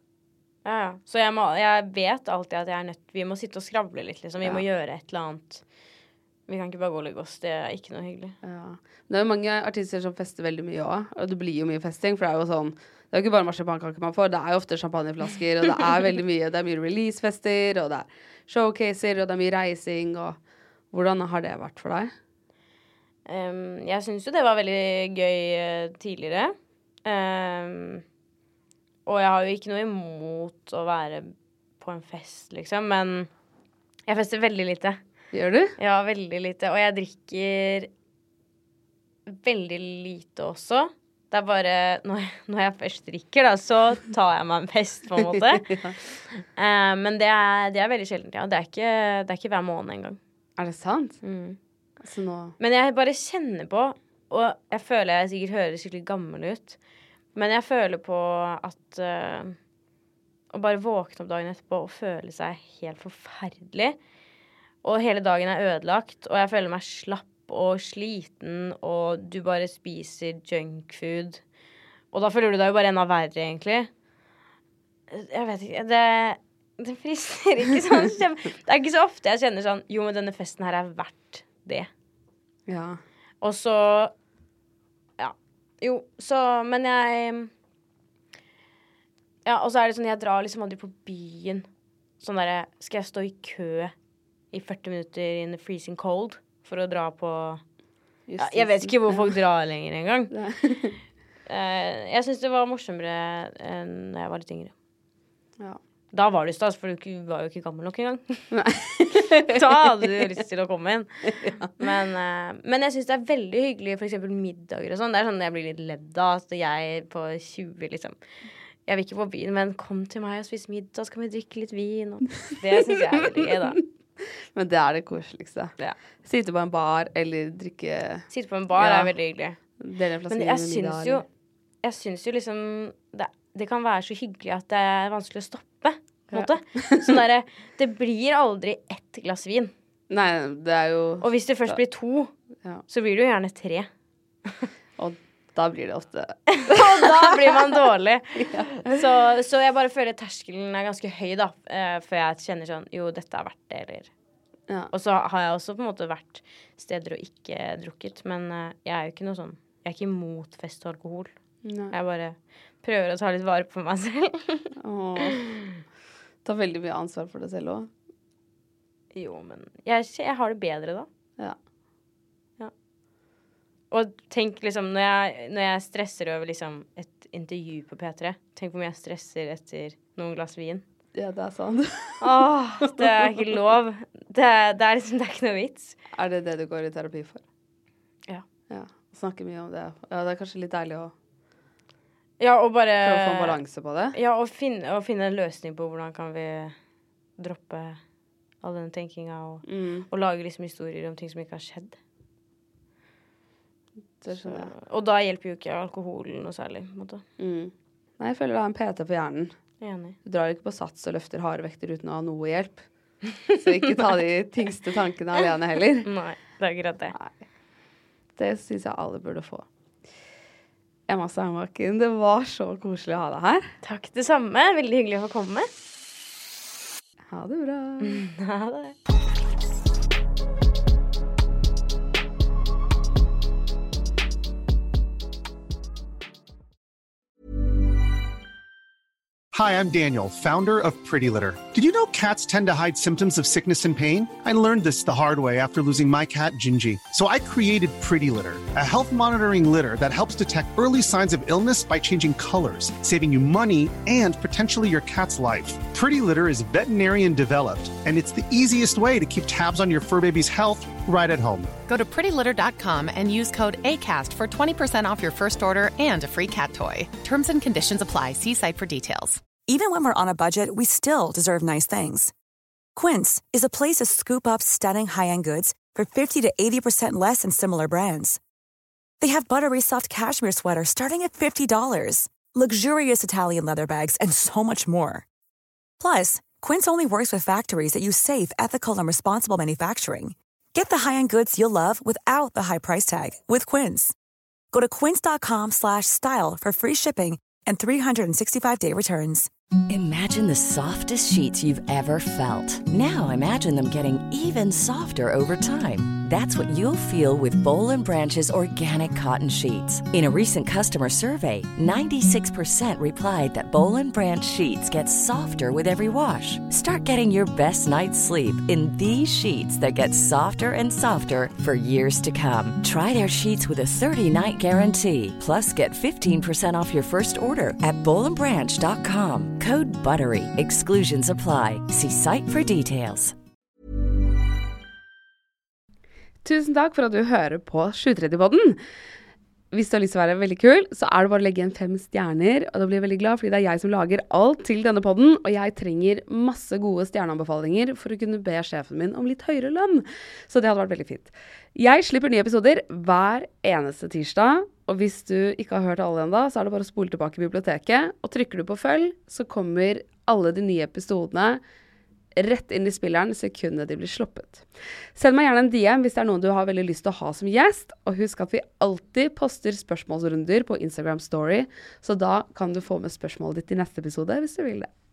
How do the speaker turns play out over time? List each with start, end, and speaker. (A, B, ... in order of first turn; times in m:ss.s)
0:00.6-0:05.6 A
0:06.5-0:08.4 A
0:08.4-0:20.4 B
0:20.9-0:22.1 B
0:23.2-0:26.5 A
0:27.0-0:28.0 A
0:29.0-0:33.3 A
0:34.1-0:35.0 A
0:35.3-0:35.8 B
0:35.8-0:37.9 A
0:39.3-0:50.2 A
0:45.2-0:45.9 B
0:50.6-0:51.2 B
0:51.2-0:51.6 A
0:52.0-0:52.6 B
0:52.6-0:56.8 A
0:57.3-0:59.6 A
1:00.5-1:04.0 A
1:04.8-1:11.4 A
1:12.1-1:13.9 A
1:15.1-1:21.9 A
1:22.7-1:23.0 B
1:23.4-1:24.1 A
1:25.2-1:27.5 A
1:29.4-1:31.7 A
1:32.2-1:33.9 A
1:34.5-1:37.6 A
1:38.3-1:39.4 B
1:38.4-1:40.3 A
1:40.3-1:41.0 B
1:41.5-1:44.7 A
1:46.1-1:48.6 A
1:48.5-1:50.3 B
1:49.4-1:58.2 A
1:51.3-1:51.7 B
1:58.8-2:03.8 A
2:04.5-2:09.1 B
2:08.3-2:09.6 A
2:09.8-2:11.2 B
2:10.3-2:11.2 A
2:11.8-2:19.7 A
2:16.3-2:17.2 B
2:20.1-2:21.8 B
2:21.2-2:22.3 A
2:22.9-2:23.9 A
2:25.0-2:27.7 B
2:26.5-2:34.1 A
2:28.4-2:29.0 B
2:34.9-2:41.3 A
2:41.6-2:41.9 B
2:41.9-2:44.7 A
2:44.8-2:45.5 B
2:46.4-2:47.9 B
2:49.1-2:51.1 A
2:53.9-3:00.8 A
3:01.1-3:03.4 B
3:02.2-3:06.0 A
3:06.1-3:07.4 B
3:08.7-3:11.1 B
3:12.4-3:13.6 A
3:13.0-3:14.2 B
3:14.1-3:16.8 A
3:17.4-3:18.0 A
3:18.6-3:22.0 A
3:19.6-3:20.1 B
3:24.2-3:24.7 B
3:24.3-3:27.2 A
3:27.4-3:29.5 B
3:29.8-3:30.2 A
3:30.2-3:32.8 B
3:33.3-3:34.0 A
3:33.5-3:36.1 B
3:36.0-3:37.1 A
3:38.4-3:39.6 B
3:41.1-3:43.7 B
3:43.8-3:45.7 A
3:47.3-3:48.2 B
3:48.0-3:48.9 A
3:59.5-4:21.7 C
4:21.8-4:29.5 D
4:29.6-4:32.3 E
4:32.9-4:38.4 E
4:39.2-4:45.2 E
4:46.0-4:54.1 E
4:54.7-4:59.5 E
4:59.9-5:33.3 F
5:36.4-5:38.8 B
5:39.7-6:01.6 B
6:02.3-6:14.9 B